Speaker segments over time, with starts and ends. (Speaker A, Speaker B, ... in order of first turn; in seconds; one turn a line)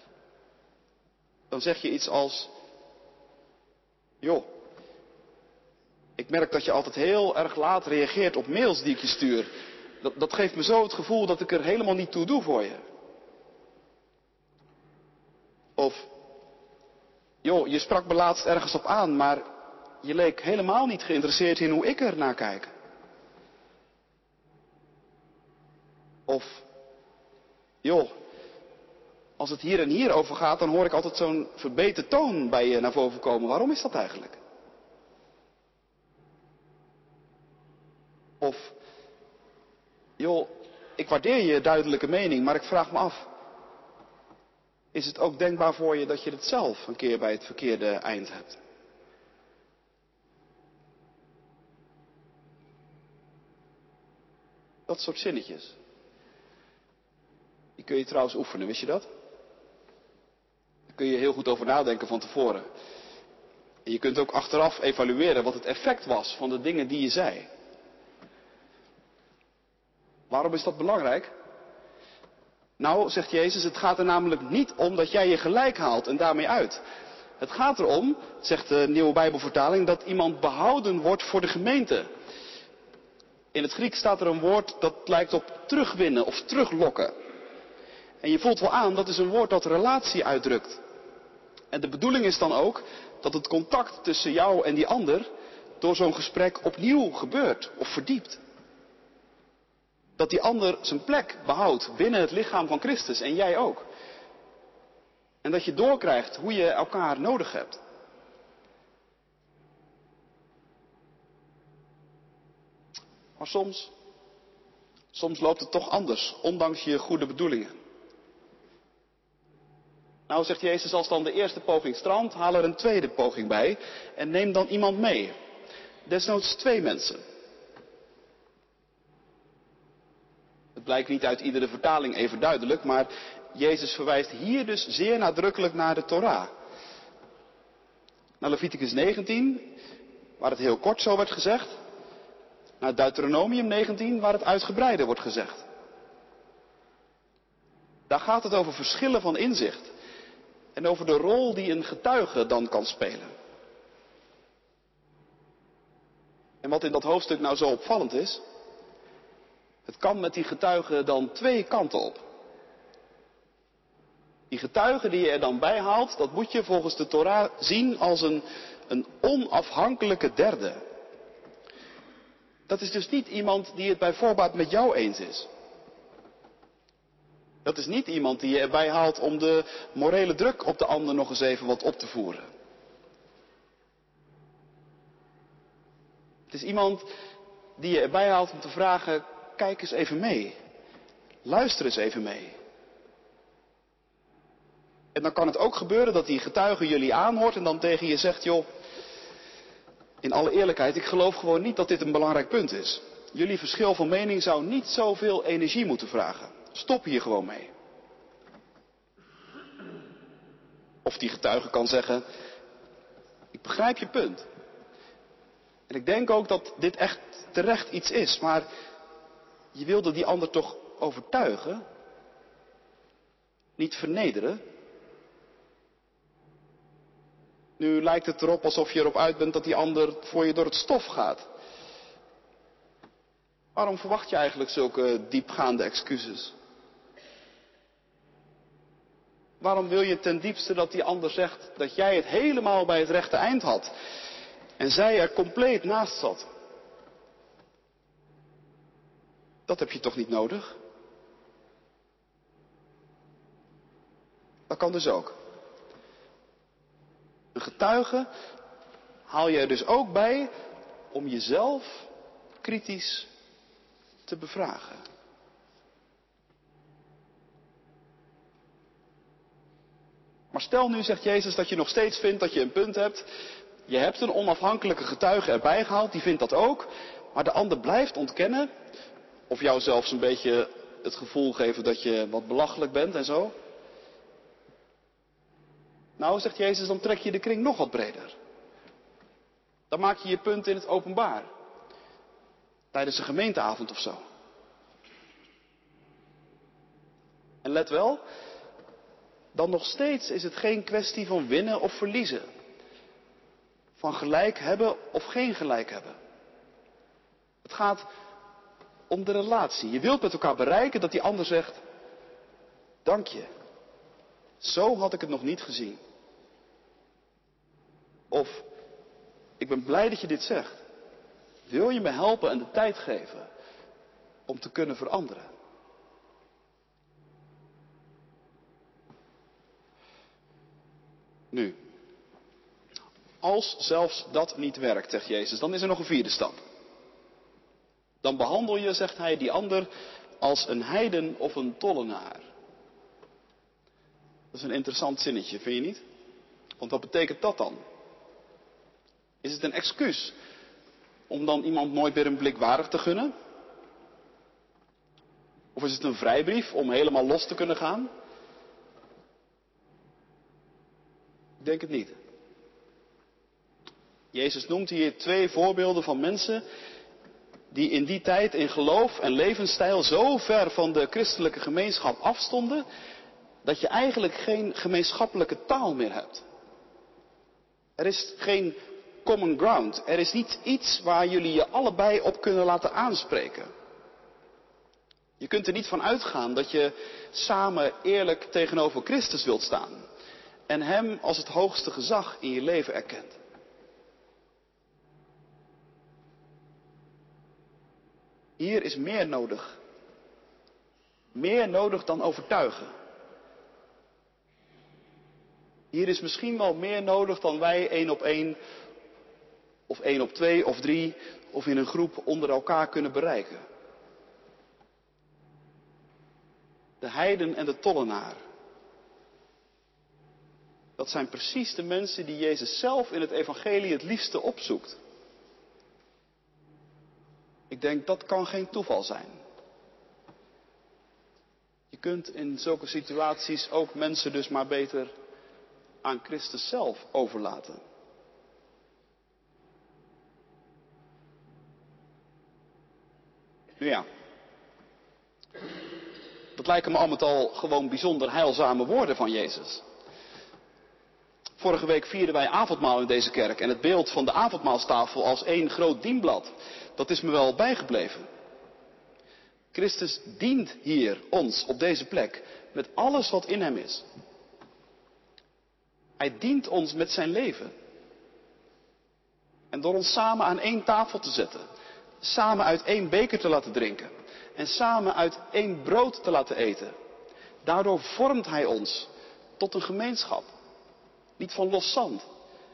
Speaker A: 1.5-2.5
Speaker A: 4.2-4.5
Speaker A: 6.2-9.5
Speaker A: 10.0-12.8
Speaker A: 15.8-16.1
Speaker A: 17.4-19.4
Speaker A: 20.0-22.7
Speaker A: 26.3-26.6
Speaker A: 27.8-28.1
Speaker A: 29.4-34.4
Speaker A: 38.4-38.7
Speaker A: 40.2-43.2
Speaker A: 44.9-48.6
Speaker A: 54.9-55.8
Speaker A: 57.8-59.1
Speaker A: 60.9-62.6
Speaker A: 63.9-67.5
Speaker A: 70.3-71.3
Speaker A: 72.8-76.8
Speaker A: 77.4-82.1
Speaker A: 83.5-87.1
Speaker A: 88.2-90.8
Speaker A: 91.7-95.3
Speaker A: 95.8-98.4
Speaker A: 100.2-103.8
Speaker A: 105.4-107.8
Speaker A: 113.4-113.9
Speaker A: 115.1-117.8
Speaker A: 120.3-125.3
Speaker A: 126.0-127.2
Speaker A: 130.8-136.5
Speaker A: 138.4-139.8
Speaker A: 140.4-141.7
Speaker A: 142.8-145.6
Speaker A: 148.1-149.9
Speaker A: 150.8-153.3
Speaker A: 156.6-158.4
Speaker A: 159.8-162.2
Speaker A: 164.5-170.8
Speaker A: 172.7-175.5
Speaker A: 177.6-182.5
Speaker A: 186.5-187.1
Speaker A: 187.8-190.6
Speaker A: 191.4-192.6
Speaker A: 195.1-198.7
Speaker A: 200.2-207.7
Speaker A: 211.0-212.2
Speaker A: 213.5-214.5
Speaker A: 215.9-218.7
Speaker A: 219.7-221.8
Speaker A: 223.8-224.6
Speaker A: 227.8-231.4
Speaker A: 233.7-236.5
Speaker A: 239.6-243.9
Speaker A: 244.8-246.5
Speaker A: 249.7-250.7
Speaker A: 254.7-255.3
Speaker A: 257.5-258.3
Speaker A: 259.3-260.5
Speaker A: 261.1-262.1
Speaker A: 262.6-263.3
Speaker A: 264.2-265.0
Speaker A: 270.5-273.3
Speaker A: 273.9-278.7
Speaker A: 279.5-283.5
Speaker A: 286.2-288.3
Speaker A: 289.9-291.5
Speaker A: 292.9-294.2
Speaker A: 297.6-298.2
Speaker A: 299.5-302.4
Speaker A: 304.0-306.1
Speaker A: 307.6-308.1
Speaker A: 309.1-311.8
Speaker A: 313.0-313.5
Speaker A: 314.6-316.0
Speaker A: 318.3-318.6
Speaker A: 319.6-320.8
Speaker A: 321.7-323.5
Speaker A: 324.5-325.5
Speaker A: 331.5-331.8
Speaker A: 333.4-336.6
Speaker A: 338.2-339.9
Speaker A: 340.4-342.5
Speaker A: 344.5-346.0
Speaker A: 346.8-347.8
Speaker A: 349.4-350.3
Speaker A: 351.3-353.3
Speaker A: 355.7-358.1
Speaker A: 361.6-362.2
Speaker A: 364.3-366.6
Speaker A: 367.7-372.8
Speaker A: 373.6-376.4
Speaker A: 378.0-383.7
Speaker A: 385.4-390.0
Speaker A: 390.7-393.4
Speaker A: 398.6-399.8
Speaker A: 401.3-402.9
Speaker A: 405.9-408.6
Speaker A: 409.9-413.6
Speaker A: 417.0-418.4
Speaker A: 421.0-425.0
Speaker A: 427.7-429.4
Speaker A: 431.9-435.1
Speaker A: 436.0-437.8
Speaker A: 443.8-444.1
Speaker A: 446.6-449.8
Speaker A: 451.6-458.2
Speaker A: 459.7-464.1
Speaker A: 466.2-467.7
Speaker A: 469.7-471.6
Speaker A: 472.2-476.9
Speaker A: 477.6-480.5
Speaker A: 481.4-482.3